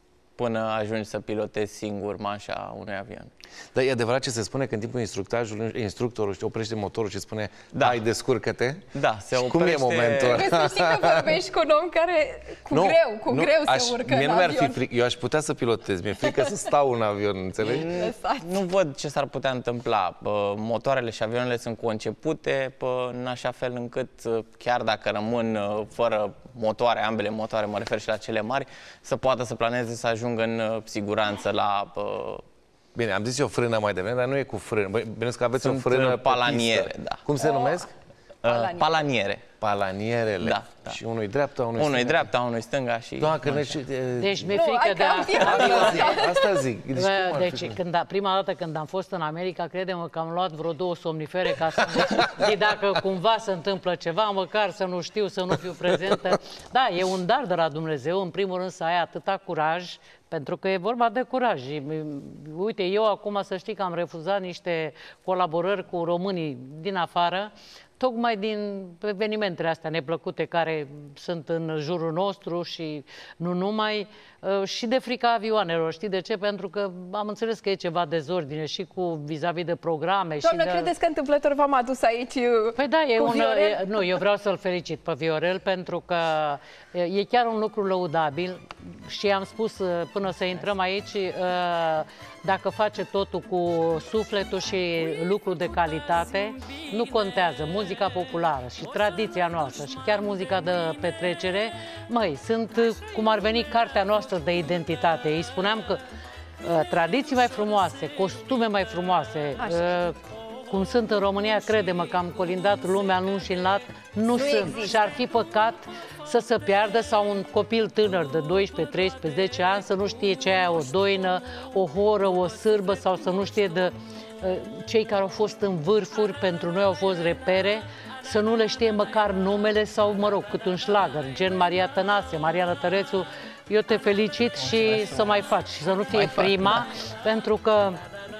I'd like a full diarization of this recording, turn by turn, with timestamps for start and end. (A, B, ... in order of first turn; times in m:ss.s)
0:00.4-0:03.3 A
0:03.7-0:11.3 B
0:07.7-0:08.0 A
0:08.9-0:10.4 A
0:10.3-0:14.8 C
0:12.7-0:17.9 B
0:17.6-0:32.4 A
0:17.9-0:18.6 C
0:33.0-0:37.9 B
0:35.6-0:37.2 A
0:37.4-0:37.8 C
0:38.4-0:39.4 A
0:38.4-0:39.0 C
0:39.6-0:42.3 B
0:40.4-0:41.0 A
0:41.8-0:43.8 A
0:43.2-0:44.6 B
0:44.2-0:46.2 D
0:44.5-0:46.6 C
0:45.3-0:47.8 B
0:46.9-1:20.9 D
1:20.4-1:24.0 C
1:22.8-1:46.0 D
1:46.6-1:50.2 D
1:49.6-1:50.1 C
1:50.7-2:18.0 D
1:54.3-1:55.1 C
2:14.9-2:15.2 A